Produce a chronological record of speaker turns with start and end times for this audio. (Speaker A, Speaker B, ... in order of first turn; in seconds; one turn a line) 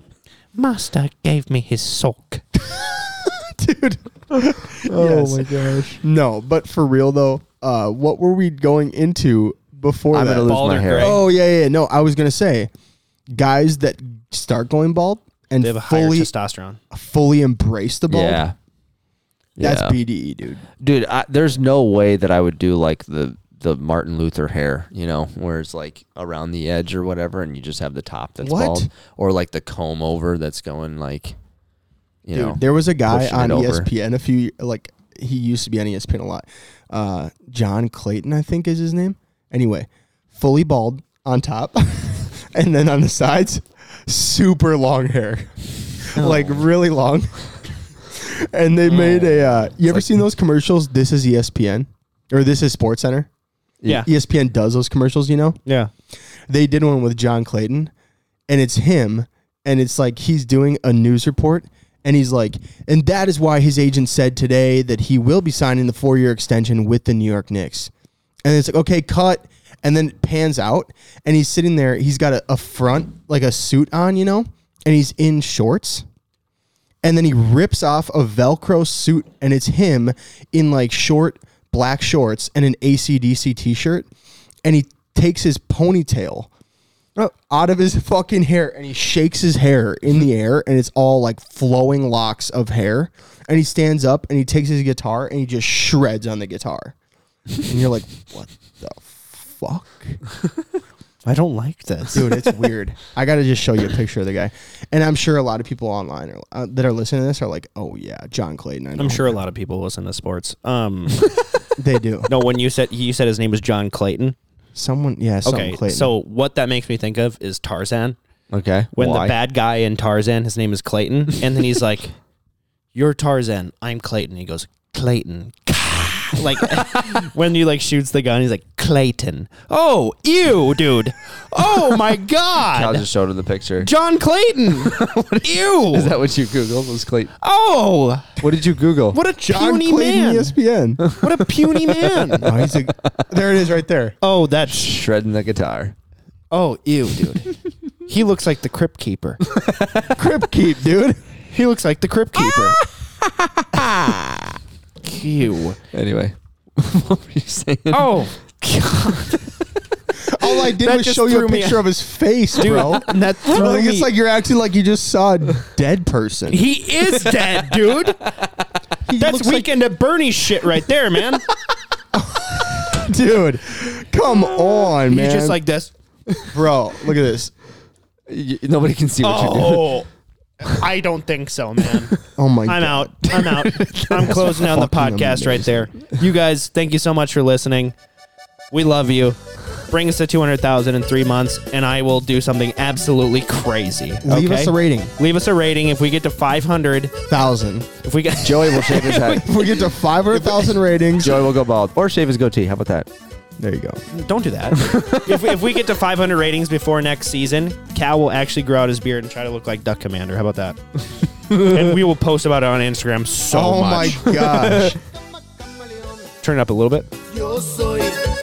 Speaker A: 0.5-2.4
Speaker B: 2.6-12.7
Speaker C: 4.8-6.0
Speaker C: 10.1-11.2
Speaker A: 10.5-11.2
Speaker B: 13.3-16.3
Speaker A: 15.6-16.8
Speaker B: 16.9-18.4
Speaker C: 18.1-18.5
Speaker C: 19.6-20.0
Speaker B: 19.6-20.6
Speaker C: 20.8-31.4
Speaker B: 28.4-28.9
Speaker C: 32.2-33.9
Speaker B: 32.3-47.5
Speaker A: 46.1-46.6
Speaker B: 48.0-53.3
Speaker A: 48.9-49.5
Speaker B: 53.9-55.6
Speaker A: 55.6-55.9
Speaker B: 56.5-57.9
Speaker B: 58.5-67.9
Speaker B: 68.5-76.0
Speaker B: 77.0-84.1
Speaker B: 84.6-86.5
Speaker B: 87.2-96.9
Speaker B: 97.6-100.2
Speaker A: 101.2-102.6
Speaker B: 102.1-109.4
Speaker A: 109.0-111.3
Speaker B: 111.8-112.3
Speaker A: 112.3-114.3
Speaker B: 114.8-116.1
Speaker A: 115.4-118.2
Speaker C: 118.5-119.3
Speaker A: 119.0-122.1
Speaker A: 122.9-133.1
Speaker C: 126.6-127.2
Speaker C: 132.7-133.9
Speaker A: 133.8-136.2
Speaker C: 134.8-137.3
Speaker A: 137.4-138.4
Speaker C: 138.4-139.2
Speaker A: 139.1-140.5
Speaker B: 139.4-141.0
Speaker C: 141.0-143.3
Speaker A: 141.2-142.5
Speaker B: 142.4-144.2
Speaker A: 144.2-144.9
Speaker C: 144.7-145.9
Speaker A: 146.5-147.5
Speaker A: 148.1-149.4
Speaker C: 149.4-150.2
Speaker B: 150.1-151.2
Speaker A: 151.5-152.8
Speaker C: 153.7-154.5
Speaker A: 155.0-155.8
Speaker C: 155.9-159.6
Speaker A: 157.9-159.4
Speaker B: 160.2-166.7
Speaker A: 160.4-161.9
Speaker A: 162.5-164.1
Speaker A: 166.5-168.3
Speaker C: 167.2-167.6
Speaker C: 168.4-168.7
Speaker B: 169.0-169.7
Speaker A: 169.2-171.4
Speaker B: 172.1-175.6
Speaker A: 174.9-175.9
Speaker C: 176.3-176.5
Speaker B: 176.5-177.5
Speaker C: 178.3-180.0
Speaker A: 179.2-180.1
Speaker A: 180.6-187.9
Speaker B: 182.3-183.3
Speaker C: 183.3-184.6
Speaker B: 184.3-185.9
Speaker A: 188.7-197.1
Speaker B: 194.2-195.1
Speaker B: 197.3-197.9
Speaker A: 198.0-200.7
Speaker C: 198.4-199.5
Speaker B: 199.3-201.4
Speaker C: 201.2-203.1
Speaker B: 203.6-204.0
Speaker A: 204.1-210.8
Speaker C: 204.7-205.5
Speaker C: 211.5-211.9
Speaker A: 211.5-214.9
Speaker B: 213.5-215.0
Speaker A: 216.4-218.2